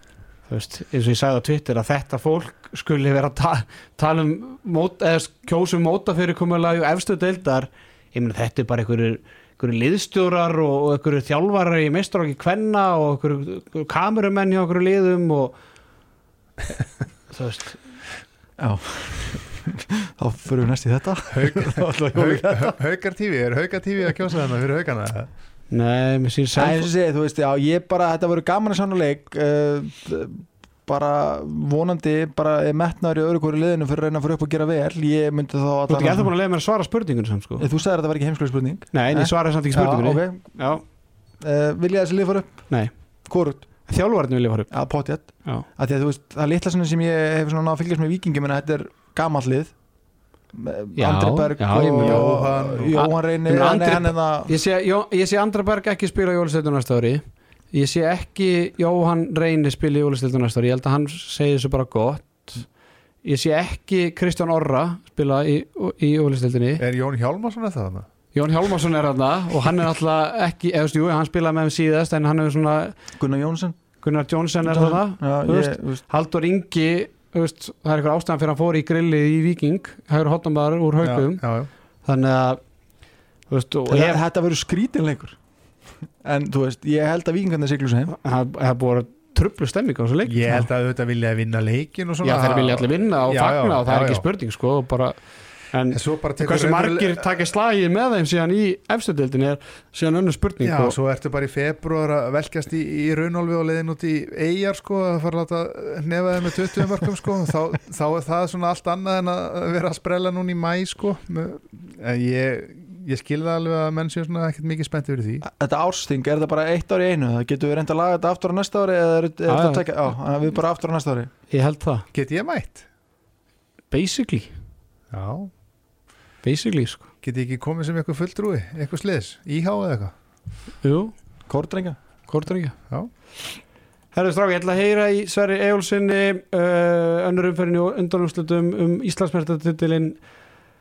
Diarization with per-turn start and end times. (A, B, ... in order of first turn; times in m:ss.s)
0:00.5-0:15.6 A
0:17.3-0:17.8 A
0:18.6-0:22.7 B
0:21.3-0:25.3 C
0:25.7-0:26.9 A
0:26.6-0:36.3 B
0:35.9-0:37.7 A
0:37.6-0:40.6 B
0:38.9-0:40.8 A
0:41.4-0:42.6 B
0:43.3-0:43.6 B
0:43.9-0:44.7 A
0:44.7-0:49.7 B
0:50.5-0:54.5 B
0:51.0-0:52.3 A
0:51.8-0:53.0 C
0:53.0-1:02.7 A
1:03.2-1:06.8 A
1:06.8-1:08.1 C
1:08.4-1:13.0 A
1:13.2-1:13.8 B
1:14.0-1:21.4 A
1:14.6-1:16.0 B
1:21.0-1:21.7 C
1:22.0-1:22.6 A
1:23.5-1:24.2 A
1:23.9-1:25.4 B
1:26.2-1:28.2 B
1:28.2-1:30.7 A
1:30.2-1:34.2 C
1:32.2-1:35.2 A
1:35.7-1:41.0 A
1:35.9-1:37.3 C
1:40.6-1:55.4 C
1:55.4-2:01.3 B
1:59.5-1:59.9 A
2:01.5-2:02.1 A
2:02.1-2:02.9 C
2:03.9-2:04.5 A
2:05.1-2:05.5 C
2:06.4-2:07.1 A
2:07.2-2:10.1 C
2:10.8-2:11.1 A
2:11.5-2:12.0 B
2:12.3-2:12.8 A
2:14.1-2:20.2 A